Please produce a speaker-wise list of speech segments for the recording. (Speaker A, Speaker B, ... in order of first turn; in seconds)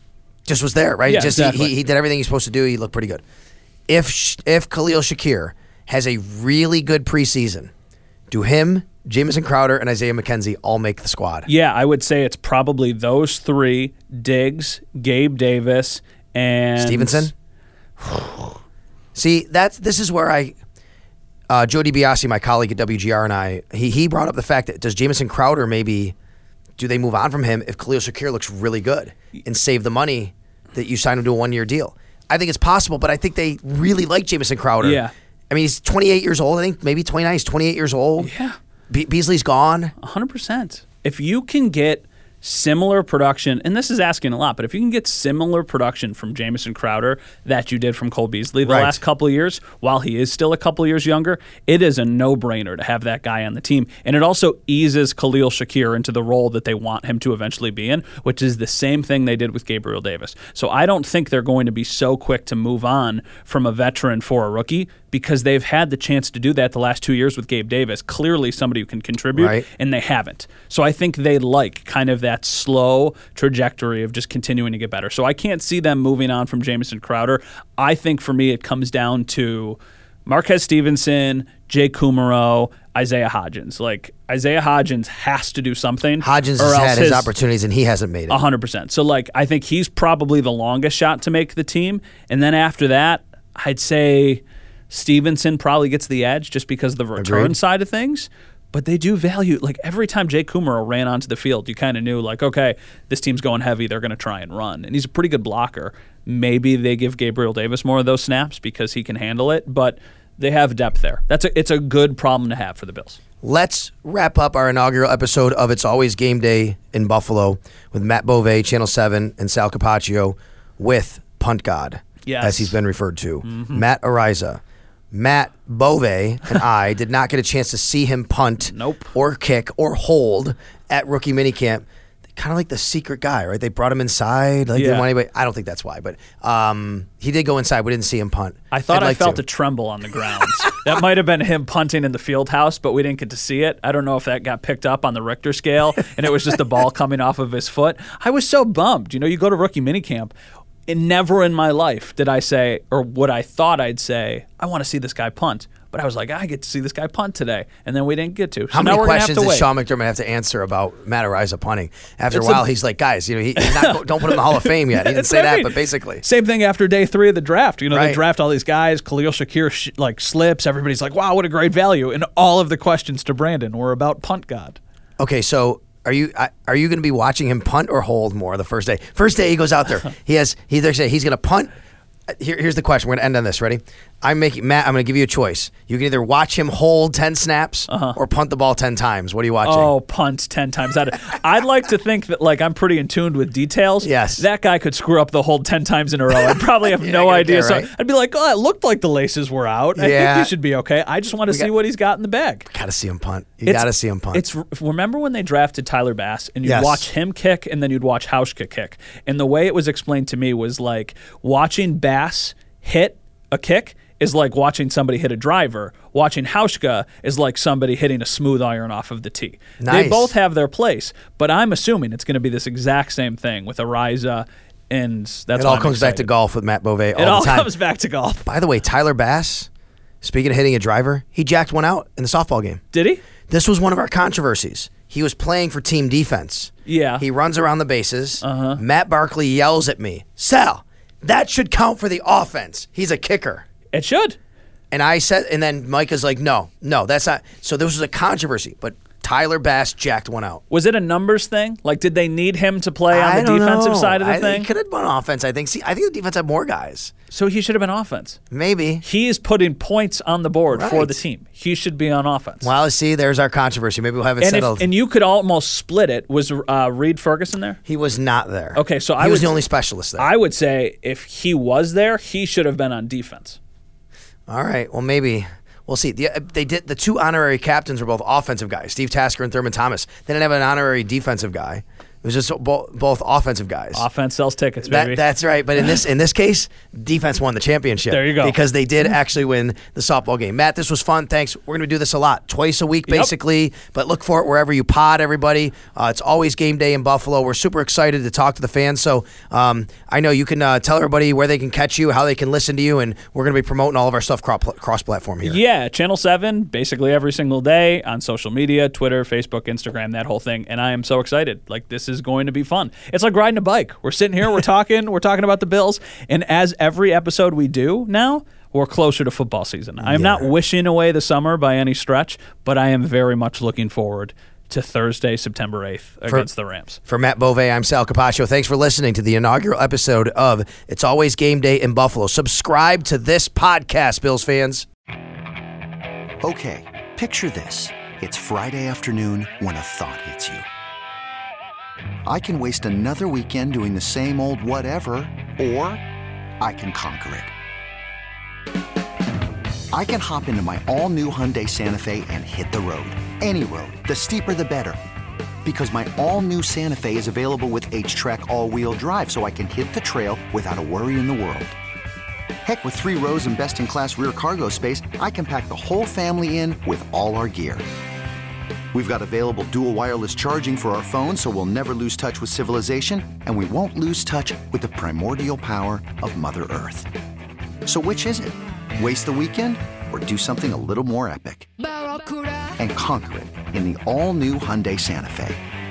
Speaker A: 0.5-3.2, 3.9-7.7, 8.3-11.5, 16.8-17.3, 19.1-20.6, 21.5-26.1, 26.8-38.3, 38.9-39.9, 48.6-49.0, 69.3-69.7, 86.2-88.4, 97.2-97.5, 113.4-124.6, 125.1-139.4, 158.7-166.2, 167.9-168.2, 175.2-181.7, 182.3-189.9, 194.0-194.4, 197.0-197.9, 199.9-200.5, 202.7-204.4, 206.6-207.1, 219.8-220.3, 225.5-227.7, 228.4-229.7, 230.2-232.8, 233.5-243.6, 244.9-250.6, 253.1-257.1, 258.5-259.0, 260.7-261.2, 262.6-264.9, 267.9-270.3, 274.5-284.1, 284.8-305.6, 320.0-320.5, 327.1-334.9
Speaker B: 1.1-1.7, 11.4-17.3, 34.8-35.1, 38.2-38.5, 40.0-87.3, 88.3-113.2, 122.2-122.8, 123.4-123.8, 128.6-129.1, 134.7-135.1, 138.7-150.3, 150.9-159.7, 162.3-162.7, 163.6-174.8, 187.9-188.2, 189.6-202.7, 203.6-226.3, 227.1-228.4, 232.9-233.2, 236.8-237.2, 238.4-238.8, 243.9-244.4, 250.7-254.7, 257.3-258.4, 259.0-262.7, 264.4-267.8, 268.7-269.5, 270.2-273.6, 283.9-285.2, 288.1-288.6, 305.4-327.0
Speaker C: 336.4-340.6, 342.2-346.0, 346.6-347.5, 349.9-355.0, 355.6-361.7, 362.6-367.8, 368.9-377.1, 377.8-381.7, 382.8-385.6